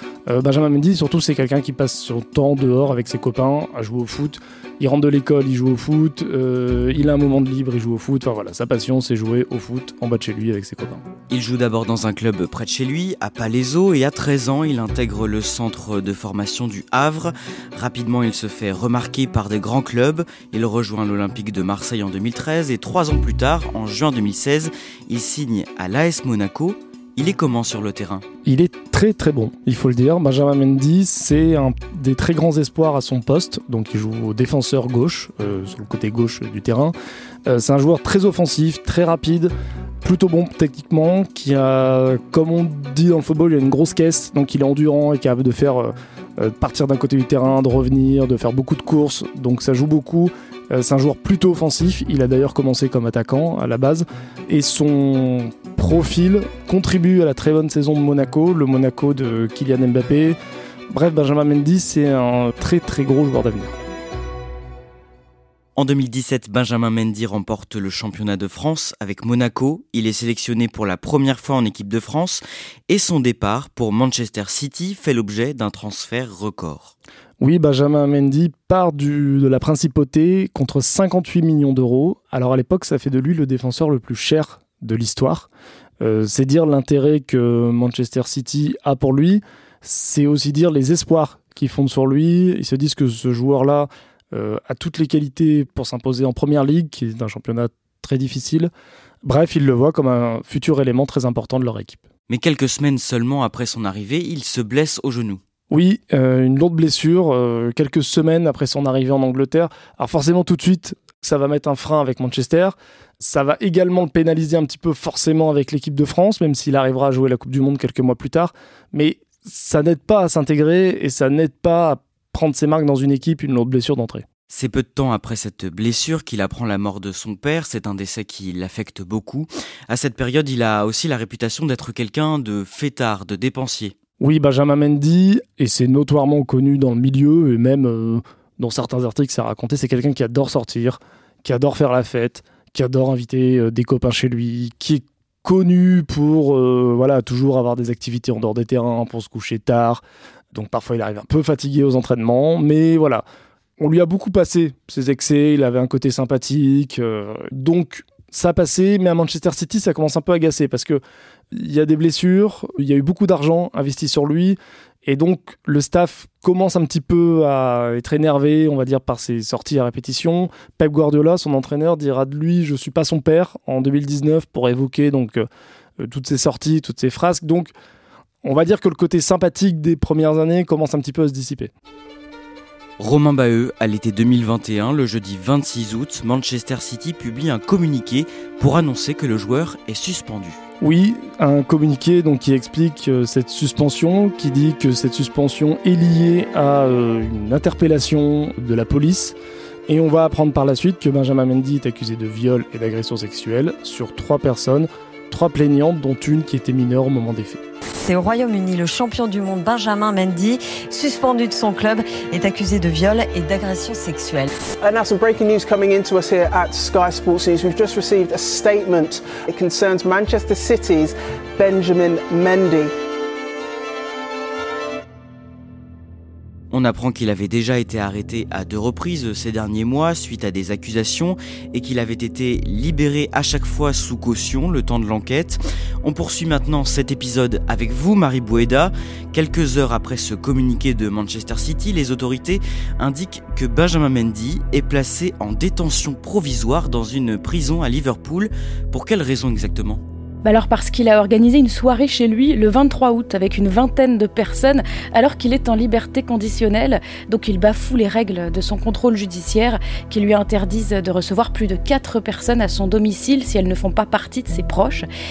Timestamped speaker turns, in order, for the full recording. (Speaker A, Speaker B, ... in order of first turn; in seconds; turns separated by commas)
Speaker A: 0.3-11.0, Speaker B: 11.3-28.2, Speaker A: 28.4-36.9, Speaker A: 37.5-60.4, Speaker A: 60.9-63.8, Speaker B: 65.8-76.9, Speaker A: 77.4-85.5, Speaker A: 86.0-98.7, Speaker A: 99.2-102.0, Speaker B: 102.3-105.4, Speaker A: 105.7-124.3, Speaker B: 124.5-133.9, Speaker A: 134.2-150.0, Speaker A: 150.5-153.2, Speaker A: 153.8-161.0, Speaker A: 161.5-175.5, Speaker A: 176.0-177.7, Speaker A: 178.4-181.7, Speaker B: 183.0-190.6, Speaker A: 190.8-199.4, Speaker A: 199.9-207.6, Speaker C: 208.0-214.5, Speaker D: 214.8-222.9, Speaker B: 226.7-250.0, Speaker E: 250.4-265.1